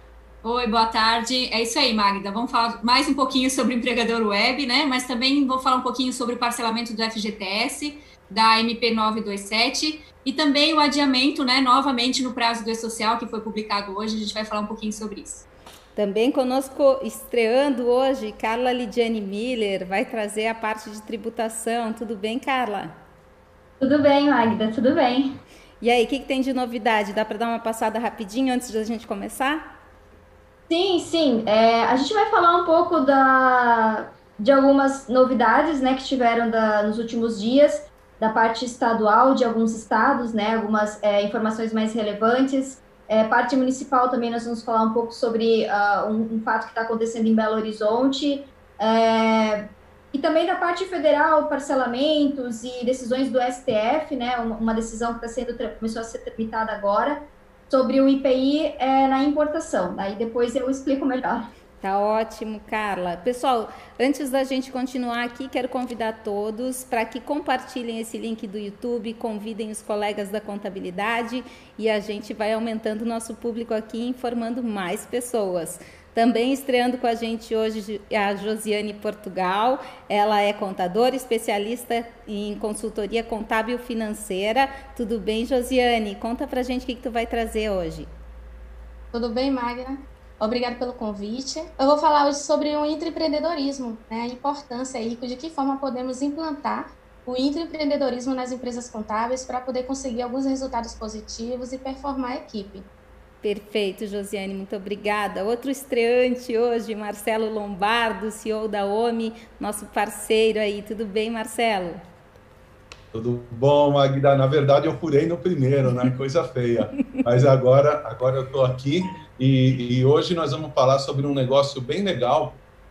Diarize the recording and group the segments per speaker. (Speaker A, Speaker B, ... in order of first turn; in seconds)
Speaker A: 0.4-15.4
Speaker B: 15.9-22.9, 25.8-29.7, 61.8-88.1, 103.4-112.0
Speaker C: 23.8-25.3, 30.7-61.5
Speaker D: 89.1-102.9
Speaker E: 113.1-122.6